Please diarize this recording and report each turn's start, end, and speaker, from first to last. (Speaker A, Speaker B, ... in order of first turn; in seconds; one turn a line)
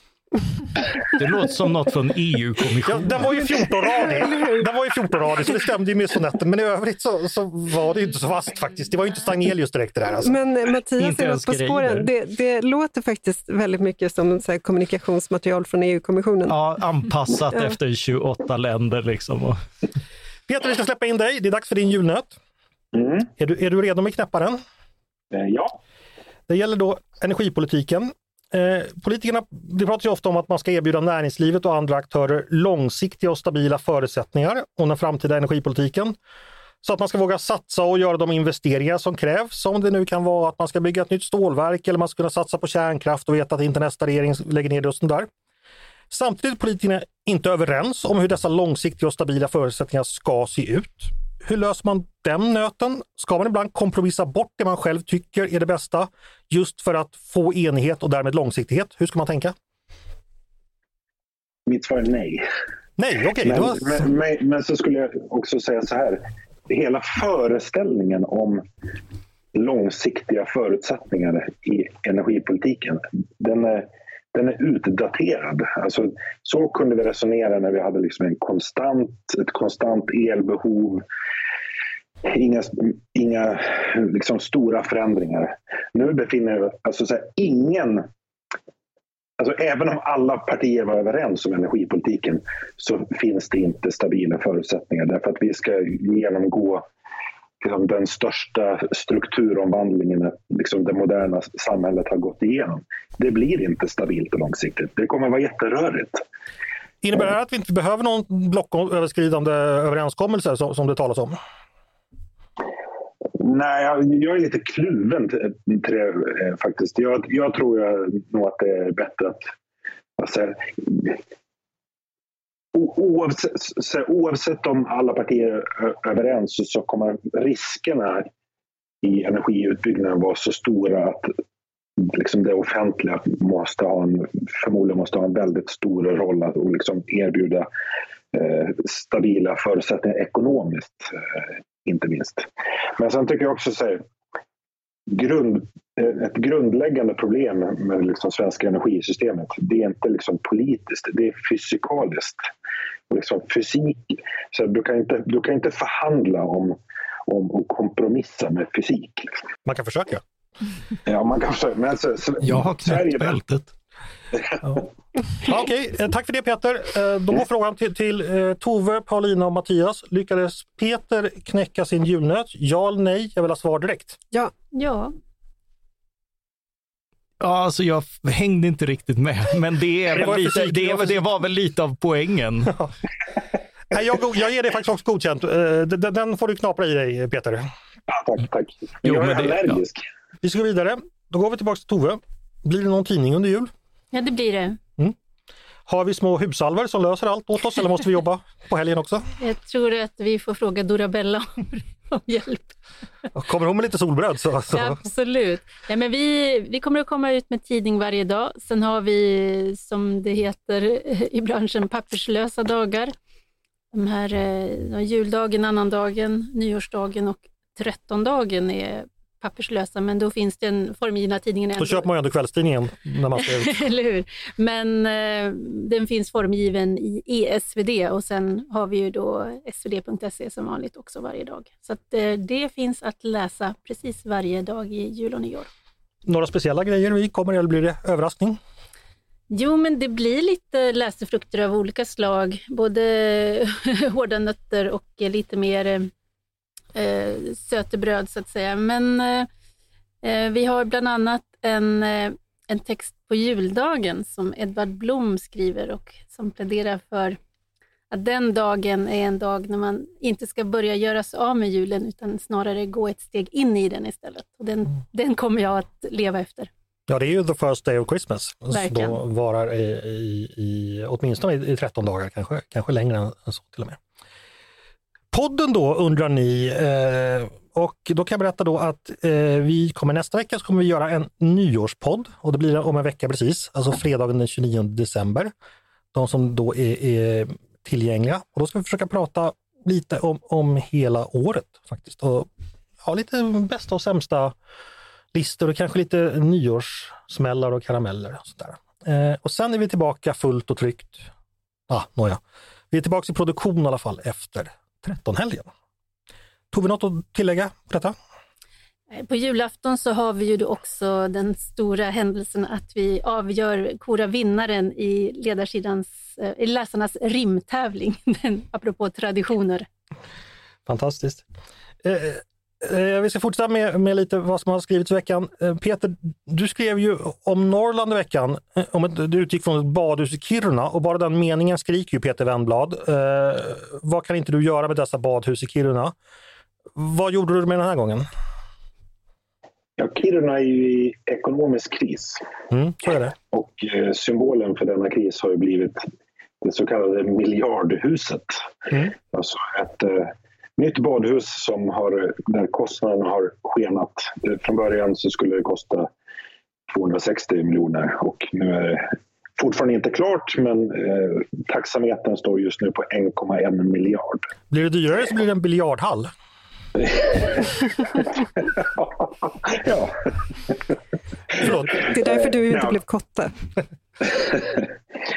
Speaker A: 1.1-3.4
Speaker B: 2.9-10.4
Speaker C: 3.9-4.7
Speaker C: 10.2-16.5
Speaker A: 11.0-12.1
Speaker A: 16.5-19.6
Speaker B: 20.5-22.4
Speaker D: 22.9-23.3
Speaker B: 23.4-24.6
Speaker D: 25.3-25.8
Speaker B: 26.5-36.1
Speaker B: 36.8-45.3
Speaker B: 46.1-59.5
Speaker D: 61.7-62.5
Speaker B: 63.0-64.0
Speaker D: 63.4-68.6
Speaker D: 69.5-81.0
Speaker D: 82.2-88.1
Speaker D: 89.4-96.8
Speaker D: 97.6-106.2
Speaker B: 107.0-111.4
Speaker D: 113.4-119.5
Speaker D: 120.2-121.2
Speaker D: 122.7-128.3
Speaker D: 129.0-131.3
Speaker D: 132.0-137.7
Speaker D: 138.3-144.0
Speaker D: 145.1-152.4
Speaker D: 153.1-159.3
Speaker B: 159.7-160.2
Speaker D: 161.1-163.4
Speaker A: 162.4-163.7
Speaker B: 165.4-174.2
Speaker E: 174.7-175.1
Speaker A: 177.4-182.8
Speaker B: 180.1-181.2
Speaker B: 183.9-187.7
Speaker D: 188.1-190.0
Speaker A: 189.0-189.8
Speaker B: 190.4-193.7
Speaker E: 194.1-194.8
Speaker B: 195.8-199.2
Speaker E: 199.4-202.7
Speaker B: 203.3-205.0
Speaker E: 204.7-213.1
Speaker E: 213.9-222.1
Speaker B: 221.8-223.8
Speaker E: 223.4-235.7
Speaker B: 236.2-238.6
Speaker E: 239.5-246.1
Speaker E: 246.9-249.5
Speaker E: 250.2-257.4
Speaker E: 258.1-266.7
Speaker B: 267.1-274.0
Speaker E: 268.7-269.2
Speaker B: 275.3-285.5
Speaker B: 286.1-292.5
Speaker B: 293.0-294.6
Speaker B: 295.3-301.3
Speaker B: 301.9-305.7
Speaker B: 306.7-308.1
Speaker E: 309.1-319.9
Speaker B: 320.9-321.4
Speaker B: 322.0-336.1
Speaker B: 336.9-338.3
Speaker D: 340.0-342.4
Speaker B: 342.7-343.3
Speaker D: 343.5-346.1
Speaker D: 346.6-356.1
Speaker D: 356.9-364.5
Speaker B: 364.7-366.3
Speaker D: 367.0-370.9
Speaker D: 371.6-373.0
Speaker C: 371.6-373.5
Speaker D: 374.2-374.9